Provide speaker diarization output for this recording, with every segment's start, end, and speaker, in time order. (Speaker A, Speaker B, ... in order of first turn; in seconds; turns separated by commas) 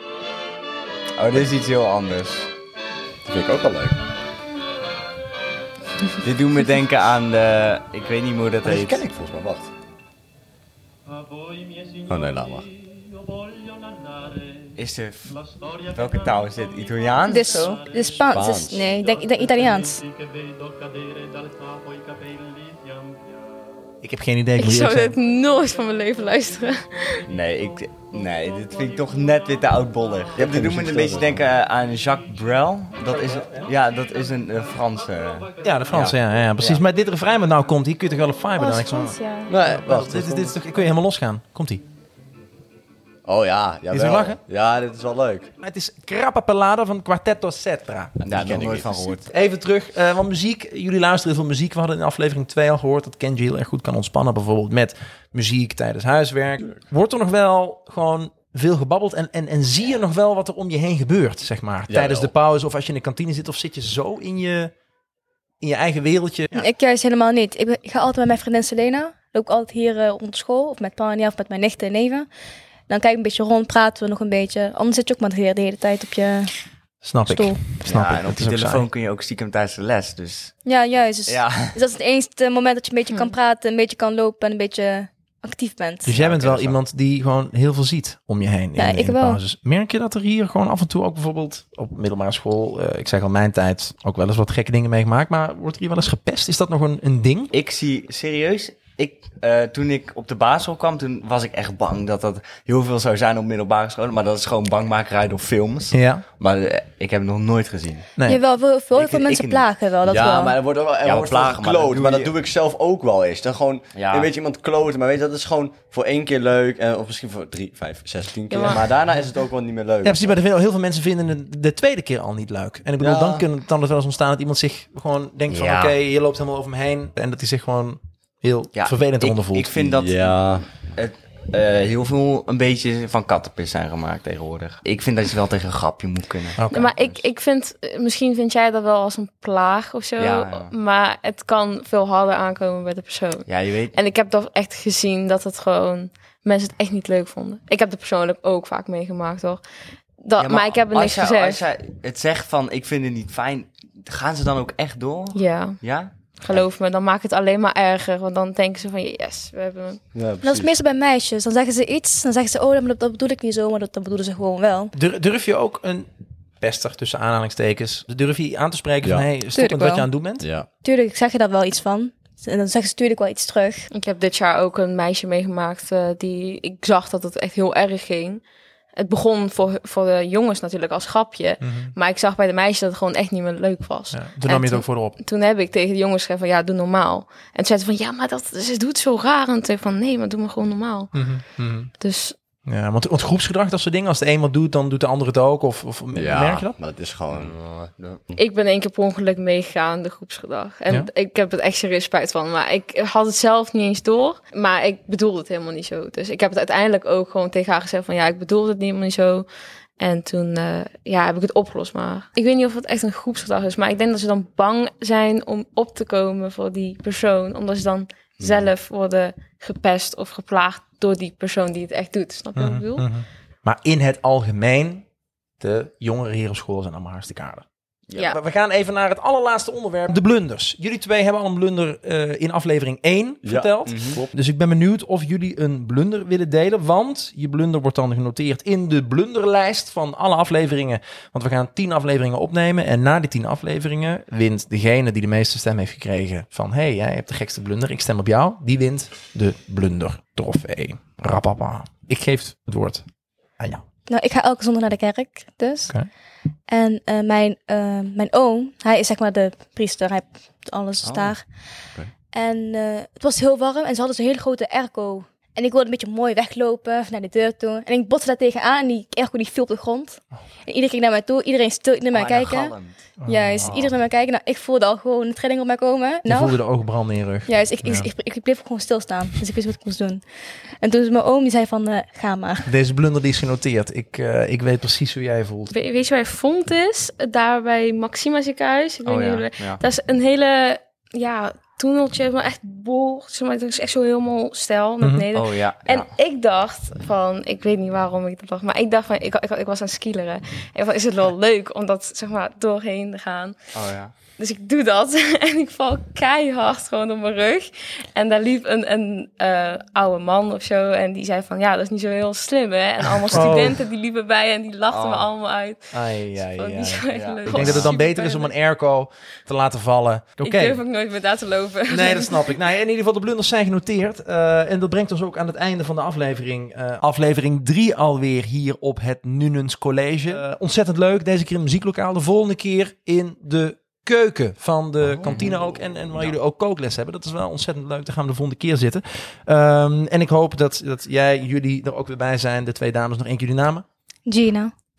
Speaker A: 1.2-2.5, Speaker B: 3.2-4.0, Speaker A: 6.2-9.0, Speaker B: 8.6-9.7, Speaker B: 12.1-12.7, Speaker A: 14.8-15.4, Speaker A: 15.9-17.8, Speaker C: 17.3-20.0, Speaker B: 18.2-18.8, Speaker D: 24.0-25.1, Speaker E: 24.6-27.3, Speaker A: 27.3-36.8, Speaker B: 30.4-31.4, Speaker D: 33.1-33.7, Speaker D: 35.6-41.8, Speaker C: 38.6-39.5, Speaker B: 39.5-40.6, Speaker B: 43.2-45.5, Speaker D: 43.9-44.4, Speaker D: 45.6-48.2, Speaker A: 48.2-49.3, Speaker B: 48.2-49.1, Speaker D: 49.3-64.7, Speaker B: 61.9-62.3, Speaker D: 65.6-66.6, Speaker C: 66.5-72.3, Speaker C: 72.9-76.5, Speaker D: 77.0-78.9, Speaker C: 77.2-77.6, Speaker A: 77.8-80.6, Speaker C: 80.7-86.1, Speaker A: 81.2-81.8, Speaker D: 86.0-97.5, Speaker A: 86.1-86.8, Speaker C: 88.8-89.4, Speaker A: 97.5-108.1, Speaker D: 105.9-106.2, Speaker C: 108.2-110.5, Speaker A: 108.9-110.2, Speaker B: 110.0-120.3, Speaker A: 111.0-112.3, Speaker A: 113.9-114.3, Speaker E: 118.5-118.8, Speaker D: 120.0-129.8, Speaker B: 123.0-123.4, Speaker A: 125.5-125.9, Speaker A: 128.7-130.3, Speaker B: 129.8-130.7, Speaker A: 130.9-137.2, Speaker D: 136.6-136.9, Speaker E: 136.7-149.6, Speaker A: 140.2-140.7, Speaker A: 143.5-143.9, Speaker E: 150.2-151.6, Speaker A: 150.4-156.6, Speaker E: 155.3-155.8, Speaker E: 156.4-160.0, Speaker B: 160.1-160.7, Speaker C: 160.4-164.9, Speaker D: 164.9-166.1, Speaker D: 166.6-170.5, Speaker B: 169.0-169.3, Speaker C: 169.5-170.1, Speaker B: 170.4-170.7, Speaker C: 170.8-173.9, Speaker E: 173.9-178.4, Speaker E: 178.9-191.4, Speaker D: 181.6-181.9, Speaker D: 184.1-185.2, Speaker D: 191.1-191.9, Speaker E: 191.9-192.3, Speaker D: 192.7-196.7, Speaker B: 196.1-197.5, Speaker A: 197.3-198.2, Speaker E: 198.4-209.5, Speaker E: 210.0-223.1, Speaker D: 222.5-225.1, Speaker D: 225.6-227.6, Speaker A: 228.1-228.4, Speaker D: 228.2-253.1, Speaker B: 233.4-234.3, Speaker A: 233.9-234.2, Speaker D: 253.6-253.8, Speaker C: 254.1-255.9, Speaker C: 256.7-261.5, Speaker A: 261.0-261.3, Speaker C: 262.3-272.7, Speaker A: 272.1-272.9, Speaker D: 273.2-273.9, Speaker C: 273.2-276.6, Speaker D: 276.2-278.1, Speaker C: 277.5-280.2, Speaker C: 280.8-282.7, Speaker D: 282.6-285.7, Speaker E: 285.7-303.6, Speaker A: 289.1-289.8, Speaker D: 295.0-295.2, Speaker A: 295.3-296.1, Speaker A: 303.7-304.1, Speaker E: 304.3-318.5, Speaker D: 313.3-313.8, Speaker A: 314.9-315.3, Speaker D: 315.9-320.8, Speaker A: 317.1-317.9, Speaker E: 320.4-322.5, Speaker D: 321.9-343.9, Speaker B: 335.1-335.6, Speaker A: 335.2-335.6, Speaker C: 344.2-344.7